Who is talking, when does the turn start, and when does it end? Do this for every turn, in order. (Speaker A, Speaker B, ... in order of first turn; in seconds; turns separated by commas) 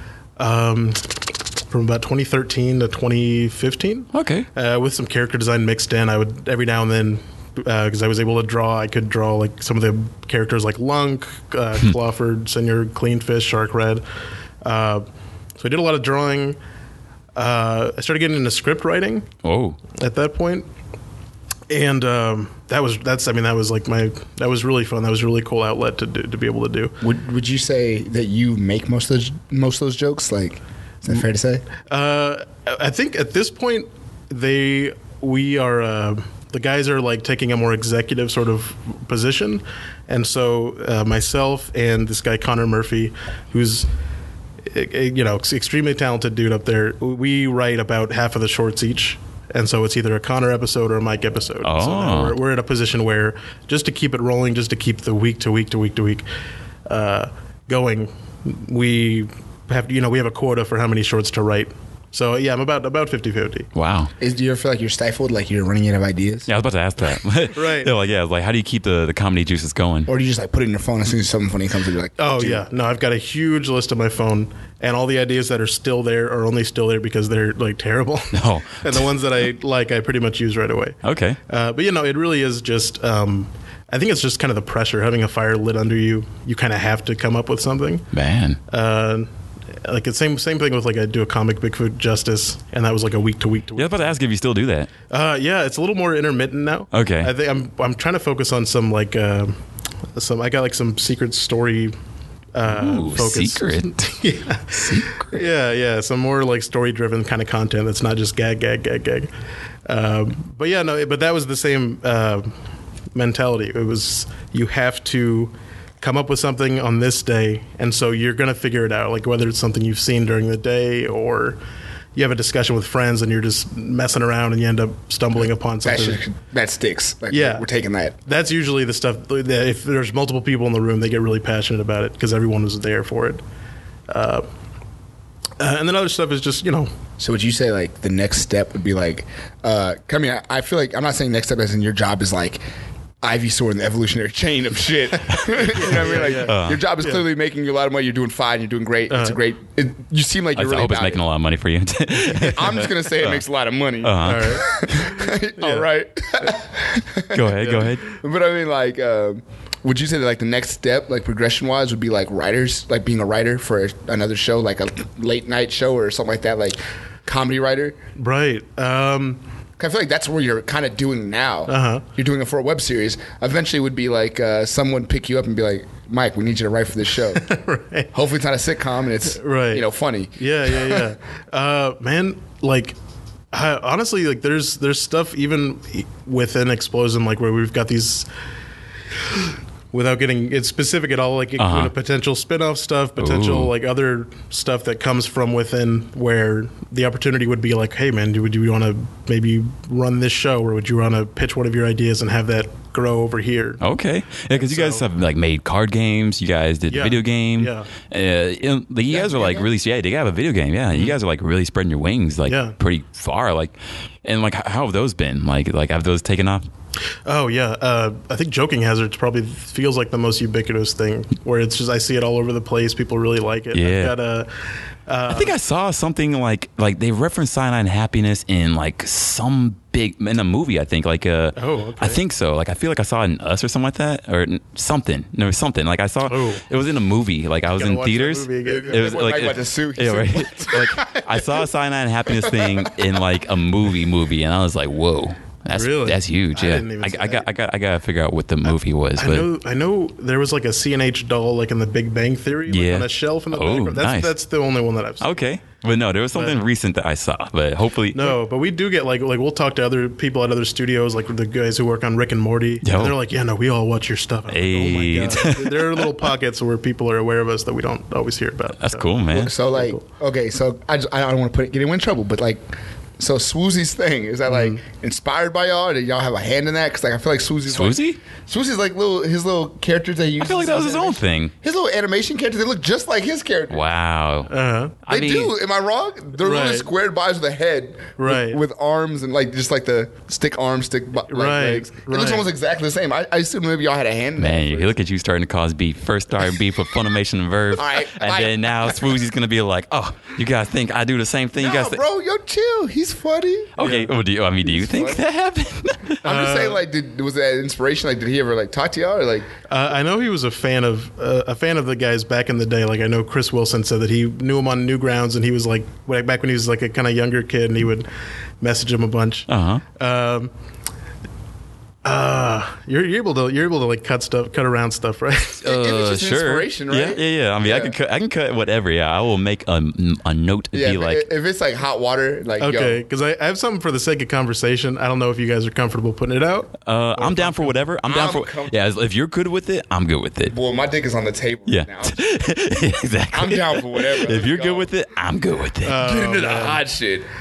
Speaker A: 0.4-14.0, Speaker B: 4.1-4.5, Speaker A: 14.6-15.1, Speaker A: 15.6-16.6, Speaker A: 17.4-19.3, Speaker B: 19.4-19.8, Speaker A: 19.9-20.7, Speaker A: 21.7-27.0, Speaker C: 27.0-31.6, Speaker A: 31.9-43.9, Speaker A: 44.6-56.2, Speaker B: 51.6-52.4, Speaker A: 56.9-63.7, Speaker B: 63.8-64.1, Speaker C: 64.2-66.5, Speaker B: 66.5-70.1, Speaker A: 67.5-67.9, Speaker C: 70.1-72.6, Speaker A: 72.2-88.1, Speaker B: 78.3-79.1, Speaker B: 81.0-81.4, Speaker B: 88.1-88.6, Speaker A: 88.7-89.3, Speaker A: 89.8-94.1, Speaker B: 93.8-94.9, Speaker A: 95.1-99.6, Speaker B: 96.9-97.3, Speaker A: 100.2-102.0, Speaker A: 102.5-109.3, Speaker B: 102.7-105.5, Speaker A: 109.9-112.5, Speaker A: 113.1-121.6, Speaker A: 122.2-126.2, Speaker C: 125.8-128.2, Speaker A: 127.3-127.7, Speaker A: 128.2-133.4, Speaker A: 134.1-134.4, Speaker A: 135.6-136.9, Speaker C: 137.2-142.6, Speaker C: 143.2-151.2, Speaker B: 145.3-146.8, Speaker A: 145.6-147.2, Speaker A: 149.1-149.4, Speaker B: 150.6-153.4, Speaker C: 152.3-168.0, Speaker B: 154.0-154.8, Speaker A: 154.2-155.0, Speaker A: 155.6-155.9, Speaker B: 157.3-158.1, Speaker A: 168.2-169.4, Speaker C: 169.8-177.4, Speaker A: 171.7-172.1, Speaker A: 177.3-178.1, Speaker C: 178.1-181.1, Speaker A: 179.3-179.9, Speaker A: 180.4-182.9, Speaker A: 183.5-188.3, Speaker A: 189.3-203.8, Speaker B: 191.6-191.9, Speaker B: 193.2-193.7, Speaker B: 203.8-216.7, Speaker A: 204.5-205.1, Speaker A: 206.9-207.9, Speaker A: 209.1-209.6, Speaker A: 212.5-212.8, Speaker A: 217.2-225.5, Speaker B: 223.7-224.2, Speaker B: 225.3-249.5, Speaker A: 231.6-232.2, Speaker A: 236.3-236.6, Speaker A: 237.8-239.2, Speaker C: 238.7-240.9, Speaker A: 240.7-241.3, Speaker C: 242.4-242.8, Speaker A: 245.7-247.5, Speaker A: 249.2-255.4, Speaker B: 252.7-254.3, Speaker B: 255.2-258.4, Speaker A: 258.1-270.0, Speaker B: 262.8-263.2, Speaker B: 264.5-266.3, Speaker B: 268.8-269.5, Speaker C: 269.3-283.8, Speaker A: 274.5-274.8, Speaker B: 277.7-278.2, Speaker B: 280.4-281.5, Speaker B: 283.7-284.5, Speaker A: 284.5-285.0, Speaker B: 285.0-285.5, Speaker C: 285.1-294.9, Speaker A: 286.4-286.9, Speaker A: 288.2-288.6, Speaker A: 291.3-292.5, Speaker B: 294.4-302.0, Speaker C: 297.7-299.0, Speaker C: 301.6-303.7, Speaker B: 303.8-306.2, Speaker A: 303.8-304.1, Speaker C: 304.8-305.2, Speaker A: 306.2-306.8, Speaker C: 306.2-309.5, Speaker A: 309.7-318.1, Speaker A: 318.6-320.5, Speaker B: 319.5-319.8, Speaker A: 322.0-325.6, Speaker B: 325.6-331.3, Speaker C: 325.6-327.9, Speaker C: 330.7-333.0, Speaker A: 332.6-337.8, Speaker B: 336.9-340.5, Speaker C: 338.1-338.8, Speaker C: 340.5-342.2, Speaker B: 341.7-346.0, Speaker C: 343.3-344.9, Speaker A: 345.8-346.8, Speaker C: 346.0-347.3